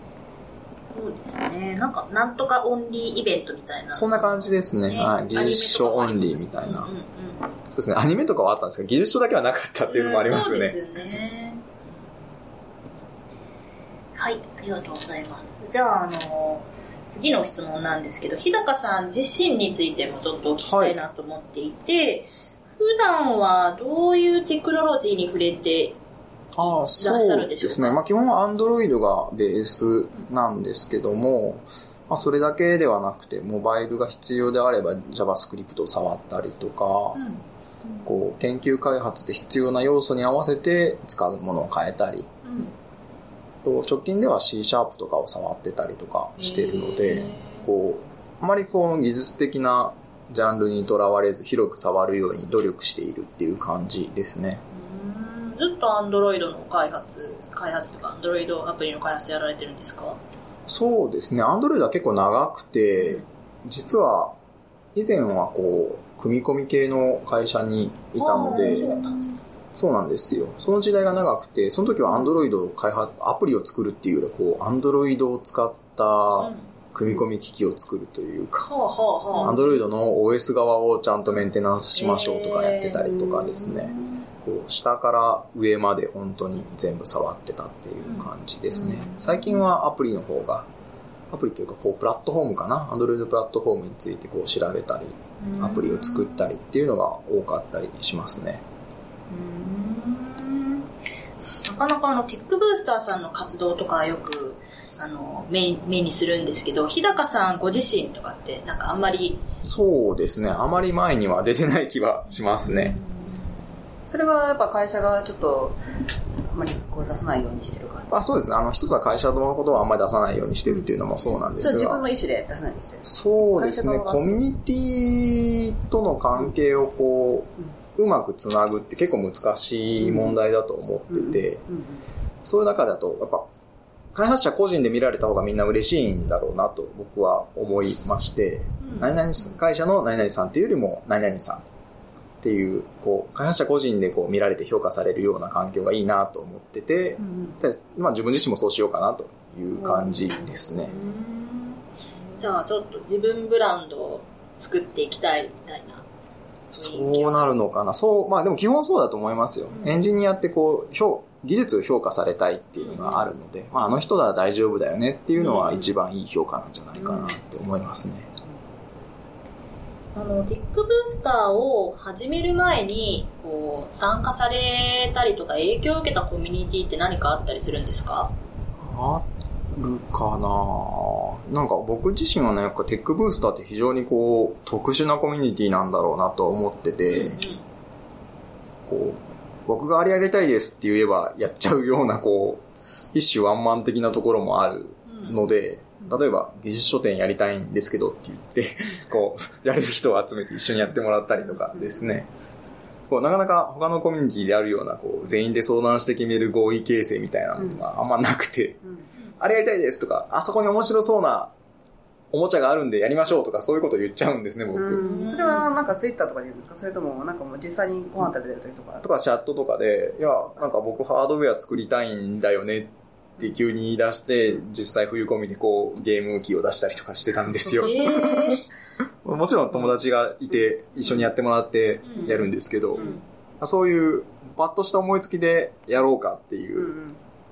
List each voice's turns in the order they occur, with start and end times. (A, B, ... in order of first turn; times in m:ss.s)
0:00.9-0:07.5 A
0:03.9-0:06.9 B
0:07.7-0:10.8 B
0:09.9-0:11.6 A
0:14.2-0:26.0 A
0:20.6-0:21.0 B
0:26.6-0:37.2 B
0:26.6-0:28.0 A
0:37.1-0:37.4 A
0:38.0-0:42.3 B
0:42.4-0:42.8 A
0:43.6-0:54.6 B
0:46.4-0:47.6 A
0:54.7-1:00.2 A
1:00.7-1:04.4 B
1:03.0-1:03.2 A
1:05.0-1:09.0 B
1:08.2-1:09.4 A
1:09.8-1:18.7 B
1:16.4-1:16.7 A
1:18.6-1:19.7 A
1:19.4-1:30.7 B
1:21.3-1:23.2 A
1:23.2-1:24.0 C
1:28.0-1:28.3 A
1:28.8-1:29.1 C
1:31.3-1:38.6 B
1:35.4-1:36.5 A
1:39.3-1:40.9 A
1:41.6-1:49.4 A
1:49.6-1:53.0 B
1:54.1-1:55.8 C
1:56.5-1:58.2 C
1:58.1-2:02.0 B
2:01.6-2:04.4 C
2:03.0-2:11.6 B
2:10.0-2:10.4 C
2:11.1-2:12.0 C
2:12.4-2:13.5 B
2:14.1-2:21.6 B
2:18.8-2:19.2 A
2:22.4-2:30.9 B
2:27.2-2:27.6 C
2:29.8-2:30.9 C
2:30.8-2:31.8 A
2:32.4-2:36.0 A
2:36.7-2:48.3 B
2:36.8-2:37.5 A
2:42.8-2:43.3 A
2:45.4-2:45.9 A
2:50.2-2:58.3 A
2:58.8-3:07.4 B
3:07.1-3:07.6 A
3:08.9-3:22.3 B
3:15.1-3:15.4 A
3:21.8-3:22.1 C
3:23.1-3:28.8 B
3:29.4-3:31.5 B
3:32.3-3:35.2 B
3:34.8-3:39.0 C
3:35.0-3:35.7 A
3:39.0-3:48.6 B
3:40.2-3:40.7 C
3:47.7-3:48.7 A
3:49.2-3:57.0 B
3:52.0-3:52.4 A
3:53.0-3:53.2 A
3:56.8-3:57.2 C